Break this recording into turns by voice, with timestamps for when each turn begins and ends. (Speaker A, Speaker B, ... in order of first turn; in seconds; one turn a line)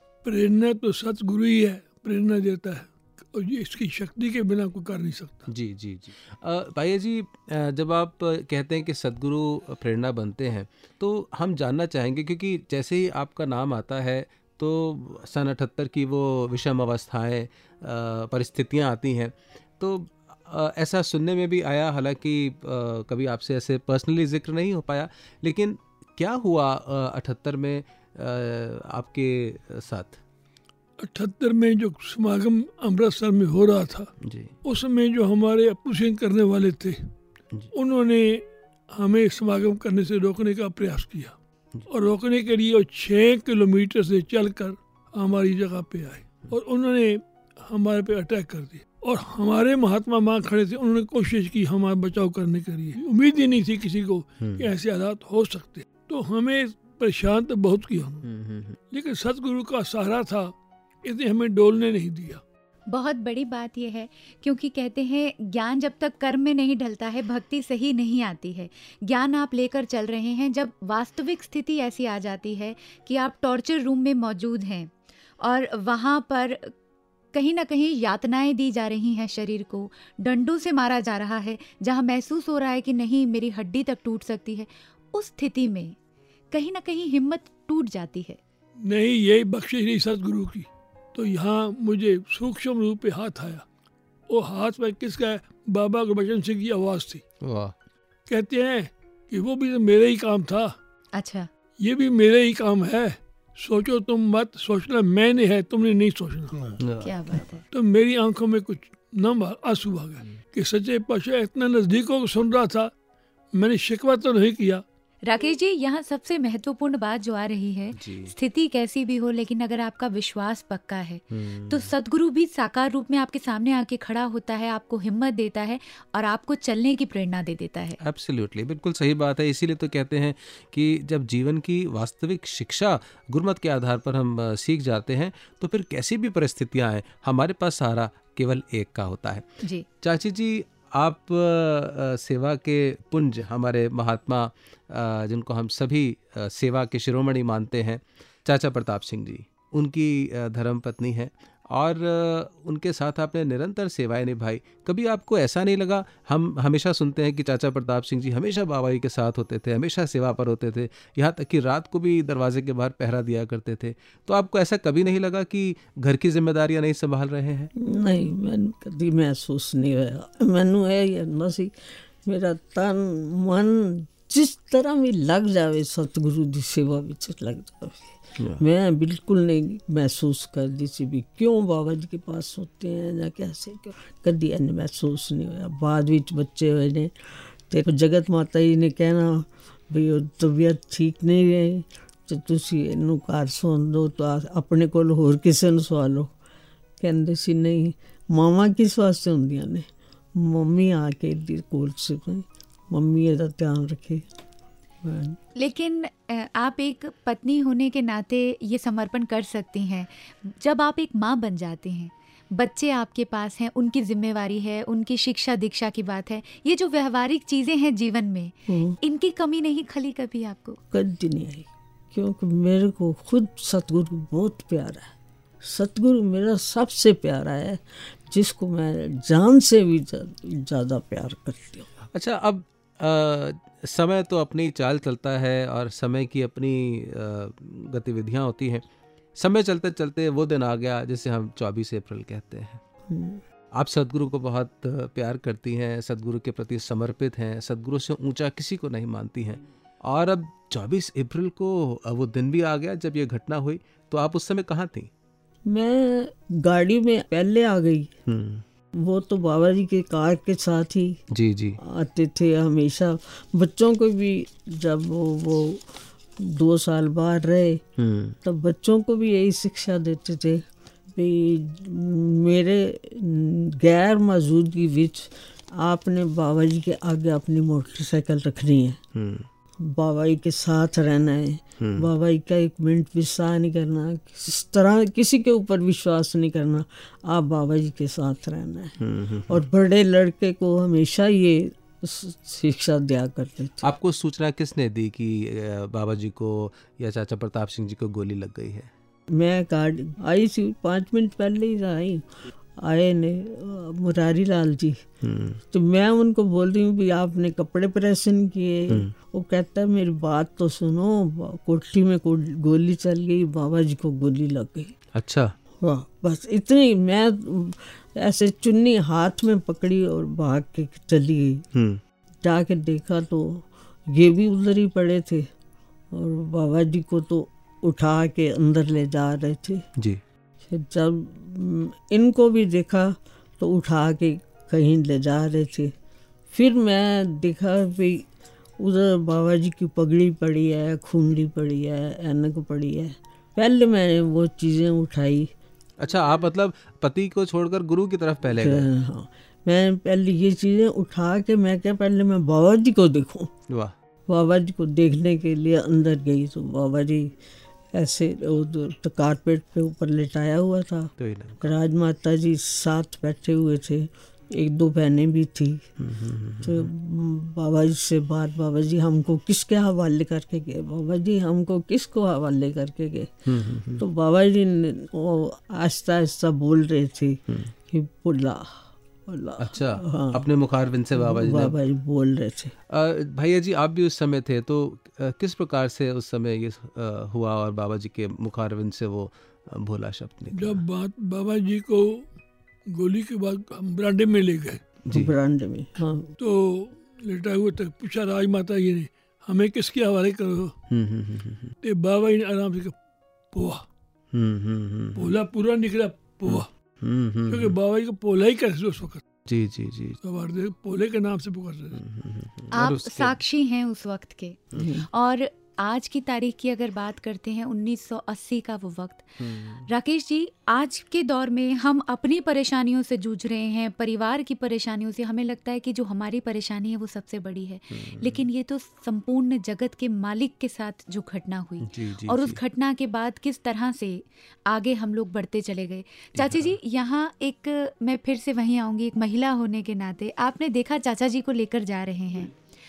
Speaker A: 0.2-5.5
Speaker B: 5.5-30.2
Speaker A: 31.0-34.1
Speaker B: 34.2-34.5
Speaker A: 34.6-37.1
Speaker A: 37.7-41.3
Speaker A: 41.9-58.2
Speaker B: 54.4-54.6
Speaker B: 58.2-58.8
Speaker A: 58.9-62.4
Speaker C: 62.9-76.7
Speaker C: 77.3-86.0
Speaker C: 86.5-88.4
Speaker A: 88.8-93.6
Speaker A: 94.3-97.2
Speaker B: 97.4-97.7
Speaker A: 98.3-100.7
Speaker C: 101.1-101.5
Speaker A: 101.8-106.5
Speaker B: 106.8-107.1
Speaker C: 107.0-107.6
Speaker A: 107.7-112.9
Speaker A: 113.5-114.8
Speaker C: 115.2-128.0
Speaker B: 118.0-118.3
Speaker B: 121.3-121.9
Speaker B: 128.0-139.4
Speaker B: 140.0-167.7
Speaker D: 167.8-196.3
Speaker D: 197.0-204.2
Speaker D: 205.0-205.4
Speaker C: 205.6-220.8
Speaker D: 218.7-219.0
Speaker D: 220.9-231.9
Speaker B: 232.1-238.8
Speaker B: 239.4-242.8
Speaker D: 243.1-243.4
Speaker B: 243.7-255.1
Speaker D: 255.7-258.1
Speaker B: 258.3-258.6
Speaker D: 258.9-261.2
Speaker B: 261.3-261.8
Speaker D: 261.8-267.8
Speaker B: 268.0-268.4
Speaker D: 268.4-279.0
Speaker B: 279.1-279.5
Speaker D: 279.8-293.8
Speaker B: 281.8-282.1
Speaker B: 289.0-289.6
Speaker B: 293.8-298.9
Speaker D: 299.3-302.2
Speaker D: 302.8-305.1
Speaker B: 305.2-305.6
Speaker D: 305.7-314.9
Speaker B: 315.1-315.5
Speaker D: 315.8-321.6
Speaker B: 321.7-322.0
Speaker D: 322.4-325.5
Speaker D: 326.1-329.9
Speaker D: 330.7-335.9
Speaker D: 336.5-345.5
Speaker B: 346.0-348.9
Speaker D: 348.6-353.5
Speaker D: 354.3-357.3
Speaker D: 357.9-365.9
Speaker B: 361.2-361.7
Speaker B: 366.0-366.9
Speaker D: 366.6-373.4
Speaker B: 373.5-374.0
Speaker D: 374.0-380.5
Speaker B: 379.6-381.7
Speaker D: 381.1-382.7
Speaker B: 382.9-390.8
Speaker A: 390.5-392.3
Speaker A: 392.9-394.8
Speaker D: 395.1-396.3
Speaker A: 396.4-400.7
Speaker B: 400.9-401.7
Speaker A: 401.8-402.9
Speaker A: 403.5-403.9
Speaker B: 404.3-405.3
Speaker A: 405.1-406.7
Speaker B: 406.5-407.7
Speaker A: 407.5-409.2
Speaker B: 409.5-410.2
Speaker A: 410.2-412.0
Speaker B: 411.9-413.3
Speaker C: 412.7-442.5
Speaker D: 414.8-415.1
Speaker B: 419.4-419.9
Speaker B: 427.9-428.4
Speaker B: 431.9-432.6
Speaker B: 436.4-436.7